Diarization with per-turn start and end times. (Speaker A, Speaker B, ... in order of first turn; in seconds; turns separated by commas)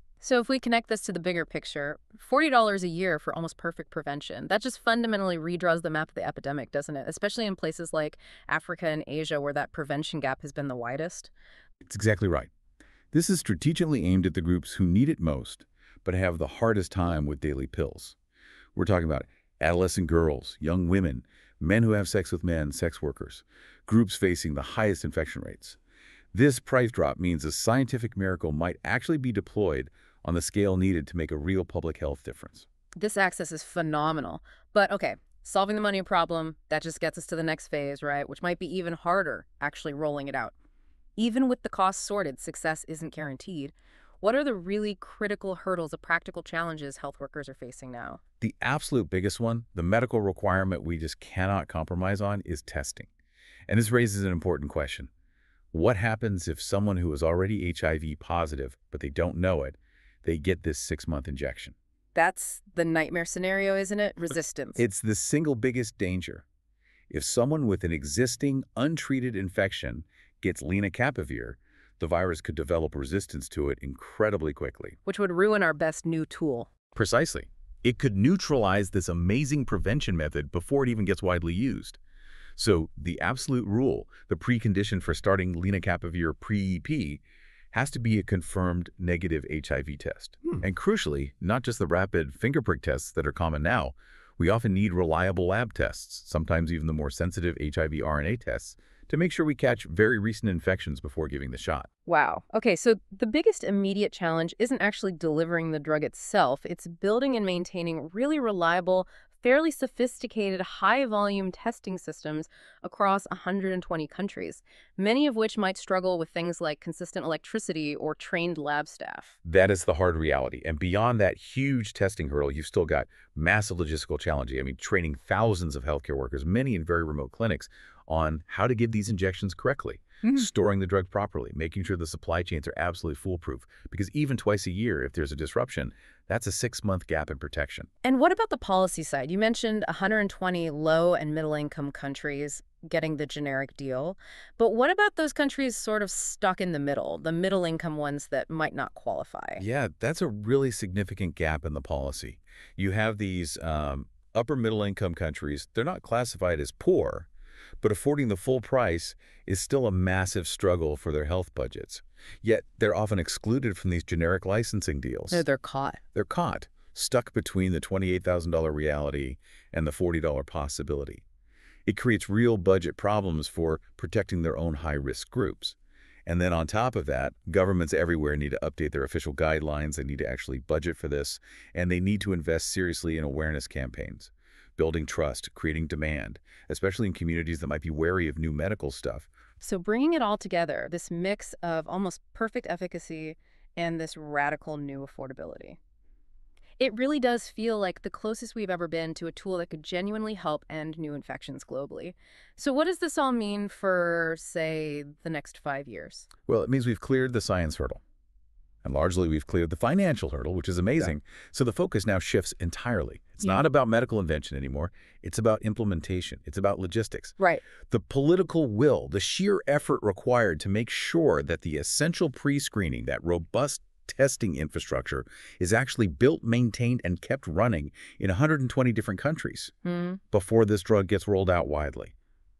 Speaker A: 0.2-11.3, Speaker B: 11.8-12.5, Speaker B: 13.1-18.1, Speaker B: 18.7-25.8, Speaker B: 26.3-32.7, Speaker A: 33.0-40.5, Speaker A: 41.2-48.2, Speaker B: 48.4-53.1, Speaker B: 53.7-55.1, Speaker B: 55.7-61.7, Speaker A: 62.1-64.8, Speaker B: 64.8-66.4, Speaker B: 67.1-75.0, Speaker A: 75.0-76.7, Speaker B: 76.9-82.0, Speaker B: 82.6-87.2, Speaker B: 87.7-101.9, Speaker A: 102.0-119.3, Speaker B: 119.4-137.9, Speaker A: 138.0-149.6, Speaker B: 149.6-157.3, Speaker B: 157.8-165.4, Speaker A: 165.3-166.0, Speaker B: 166.1-171.2, Speaker B: 171.8-189.3, Speaker A: 189.6-195.8, Speaker A: 196.8-206.3, Speaker B: 206.5-208.0, Speaker B: 208.8-229.7, Speaker A: 217.4-217.6, Speaker A: 229.8-230.2, Speaker B: 230.3-232.1